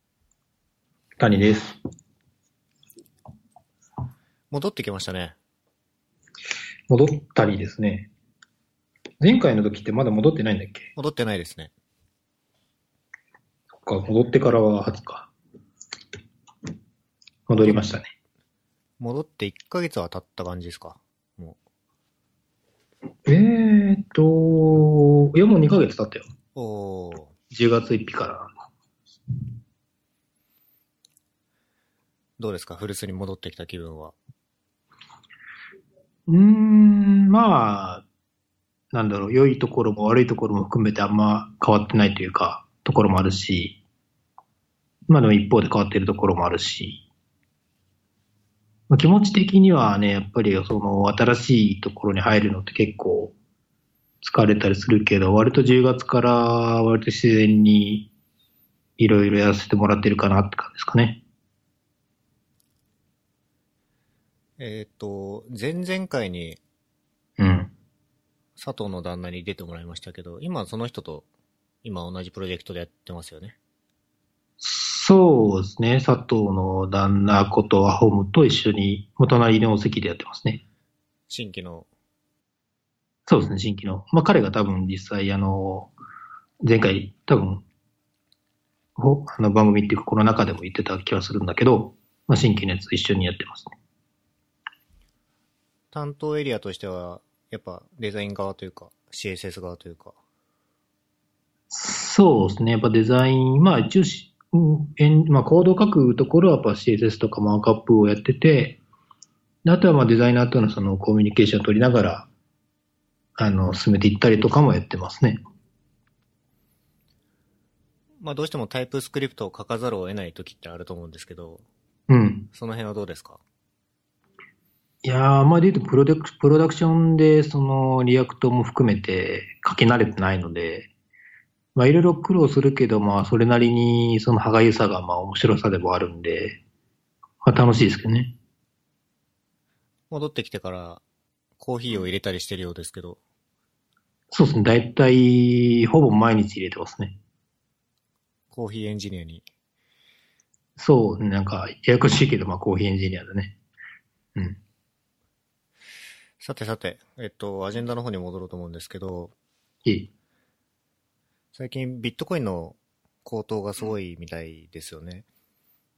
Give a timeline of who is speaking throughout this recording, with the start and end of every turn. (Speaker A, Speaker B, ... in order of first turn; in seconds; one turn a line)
Speaker A: 1.2-1.8
Speaker B: 4.5-5.3
Speaker A: 6.9-8.1
Speaker A: 9.2-10.9
Speaker B: 10.9-11.7
Speaker A: 13.8-15.3
Speaker A: 17.5-18.1
Speaker B: 17.5-17.8
Speaker B: 19.0-21.6
Speaker A: 23.2-26.2
Speaker B: 26.5-27.3
Speaker A: 27.5-28.5
Speaker B: 32.4-34.1
Speaker A: 36.3-38.0
Speaker A: 38.9-43.8
Speaker A: 45.1-47.0
Speaker A: 48.9-53.3
Speaker A: 54.2-58.1
Speaker A: 59.0-61.2
Speaker B: 64.6-66.6
Speaker A: 67.4-67.7
Speaker B: 68.6-71.3
Speaker B: 71.8-73.6
Speaker A: 74.6-80.6
Speaker B: 81.3-81.9
Speaker A: 83.3-85.9
Speaker A: 86.6-87.6
Speaker A: 89.0-93.8
Speaker B: 95.9-100.2
Speaker A: 101.7-108.8
Speaker A: 109.6-112.3
Speaker A: 113.4-115.4
Speaker B: 118.2-121.6
Speaker A: 122.1-122.5
Speaker B: 122.5-123.4
Speaker A: 125.0-130.9
Speaker A: 131.7-136.6
Speaker A: 137.4-138.3
Speaker B: 140.1-141.0
Speaker B: 141.6-143.2
Speaker A: 144.3-147.2
Speaker B: 148.5-149.4
Speaker A: 150.8-153.6
Speaker B: 156.4-159.3
Speaker A: 159.8-160.1
Speaker B: 161.5-165.2